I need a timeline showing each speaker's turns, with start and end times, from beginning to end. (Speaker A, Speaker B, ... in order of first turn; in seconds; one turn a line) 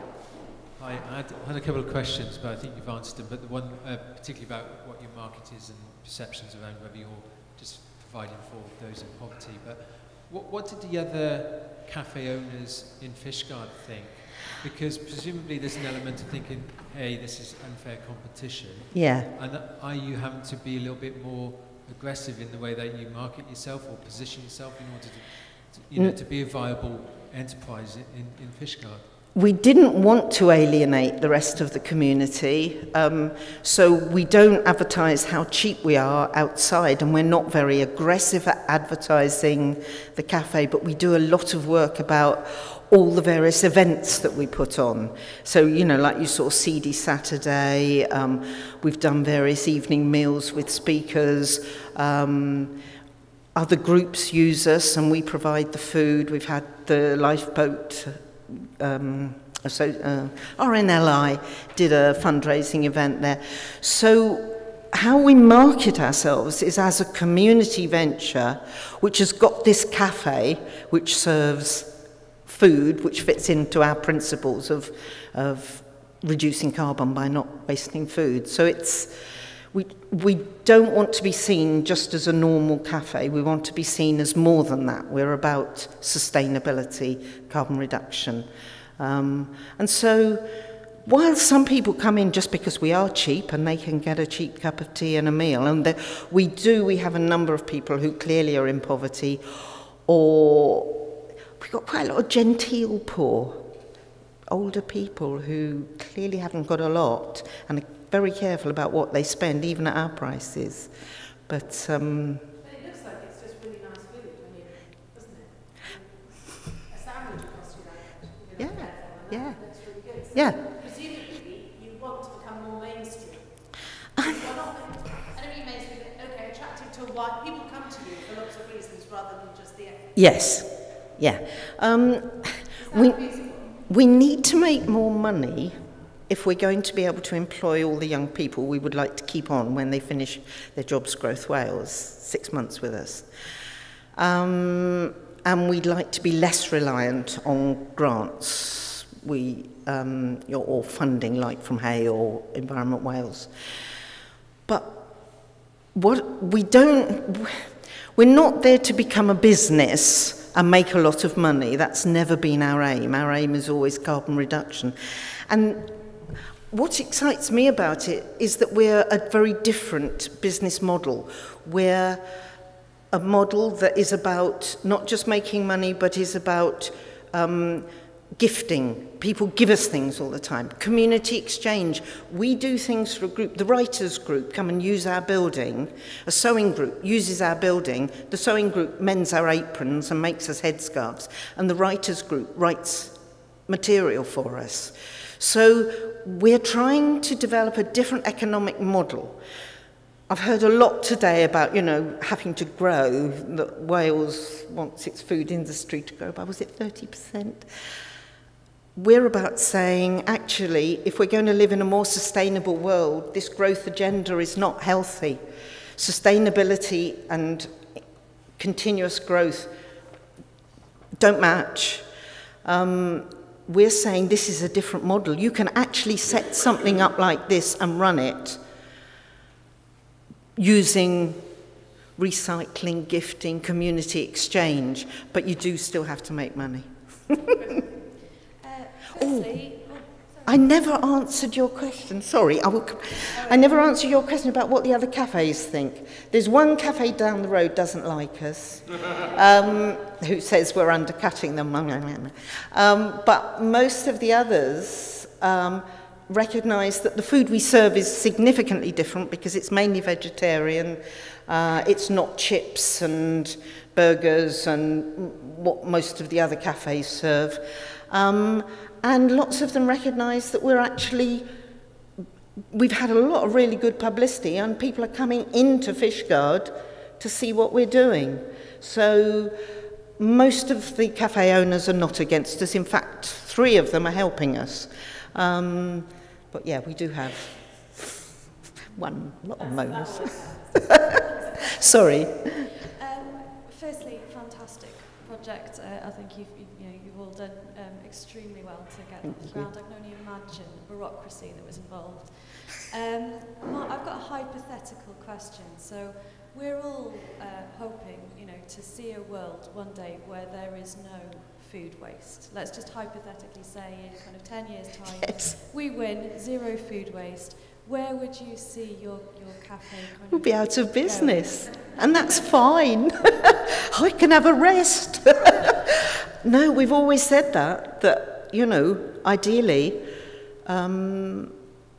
Speaker A: 0.7-29.1
Speaker B: 18.9-19.3
Speaker B: 29.3-52.8
Speaker B: 53.5-79.2
Speaker B: 79.7-90.5
Speaker B: 91.0-103.7
Speaker B: 104.5-110.9
Speaker B: 111.5-112.4
Speaker C: 112.6-130.2
Speaker B: 118.6-120.6
Speaker B: 124.2-124.4
Speaker B: 130.1-143.3
Speaker C: 132.8-133.8
Speaker B: 144.2-153.5
Speaker B: 154.7-155.1
Speaker B: 155.9-164.9
Speaker B: 165.5-165.9
Speaker B: 166.7-172.2
Speaker B: 173.1-193.2
Speaker B: 193.7-199.4
Speaker B: 200.3-207.7
Speaker B: 208.9-215.4
Speaker B: 216.0-217.9
Speaker B: 218.6-219.7
Speaker B: 221.2-222.1
Speaker B: 222.6-228.6
Speaker B: 230.6-231.4
Speaker B: 232.2-237.5
Speaker C: 237.5-237.9
Speaker D: 238.6-240.7
Speaker B: 239.2-239.7
Speaker B: 240.4-271.5
Speaker C: 243.3-243.8
Speaker B: 272.7-279.6
Speaker B: 280.2-288.1
Speaker B: 288.9-290.5
Speaker C: 289.6-292.5
Speaker B: 291.8-292.6
Speaker D: 292.9-322.4
Speaker B: 299.2-299.7
Speaker B: 315.2-315.5
Speaker B: 320.3-330.1
Speaker B: 330.6-331.5